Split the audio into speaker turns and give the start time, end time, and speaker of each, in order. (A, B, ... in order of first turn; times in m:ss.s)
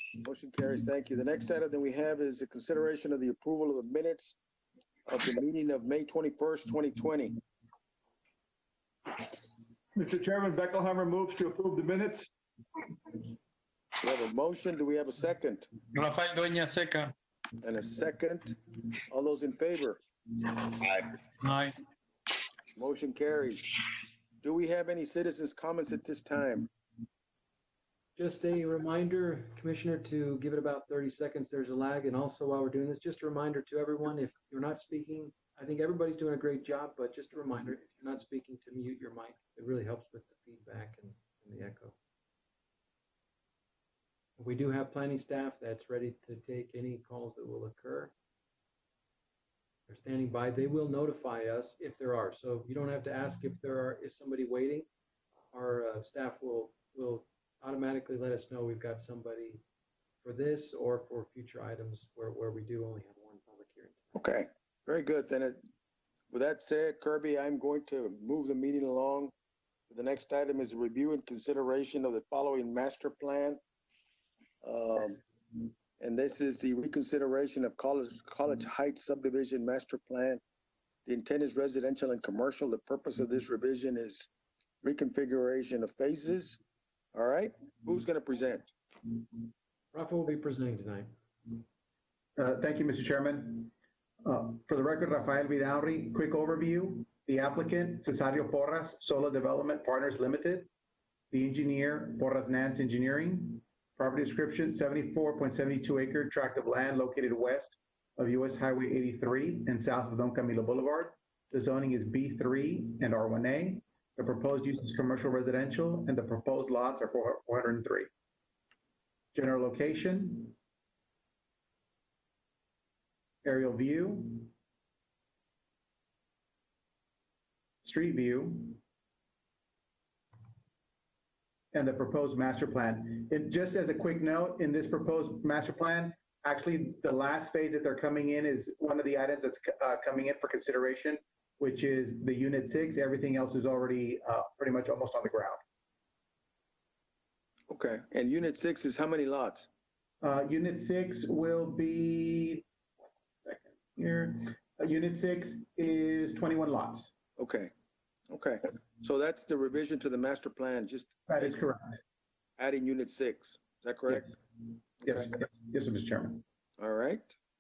0:00.2-0:04.4 A
0:05.1-0:07.4 A
0:10.0-0:12.3 B
0:14.0-0:15.7 A
0:15.9-0:17.1 C
0:17.6-0:18.6 A
0:19.1-0:20.0 A
0:20.7-0:21.8 C
0:22.7-0:23.7 A
0:24.4-0:26.7 A
0:28.2-0:42.0 D
0:44.4-0:48.1 D
0:49.9-0:54.9 D
0:55.5-0:59.6 D
1:00.2-1:04.0 D
1:04.2-1:05.6 A
1:06.3-1:09.3 A
1:09.9-1:13.6 A
1:14.6-1:15.2 A
1:16.0-1:20.4 A
1:21.1-1:24.3 A
1:24.8-1:26.6 A
1:27.1-1:28.7 A
1:29.9-1:31.1 D
1:32.4-1:33.7 E
1:34.2-1:40.7 E
1:41.3-1:58.1 E
1:59.3-2:00.6 E
2:03.4-2:04.5 E
2:07.8-2:08.8 E
2:11.7-2:25.6 E
2:27.7-2:29.7 A
2:30.2-2:32.6 E
2:33.4-2:37.1 E
2:37.4-2:37.7 A
2:38.3-2:41.6 A
2:41.3-2:42.0 E
2:42.6-2:44.3 A
2:44.1-2:44.4 E
2:45.0-2:46.4 E
2:46.8-2:47.4 A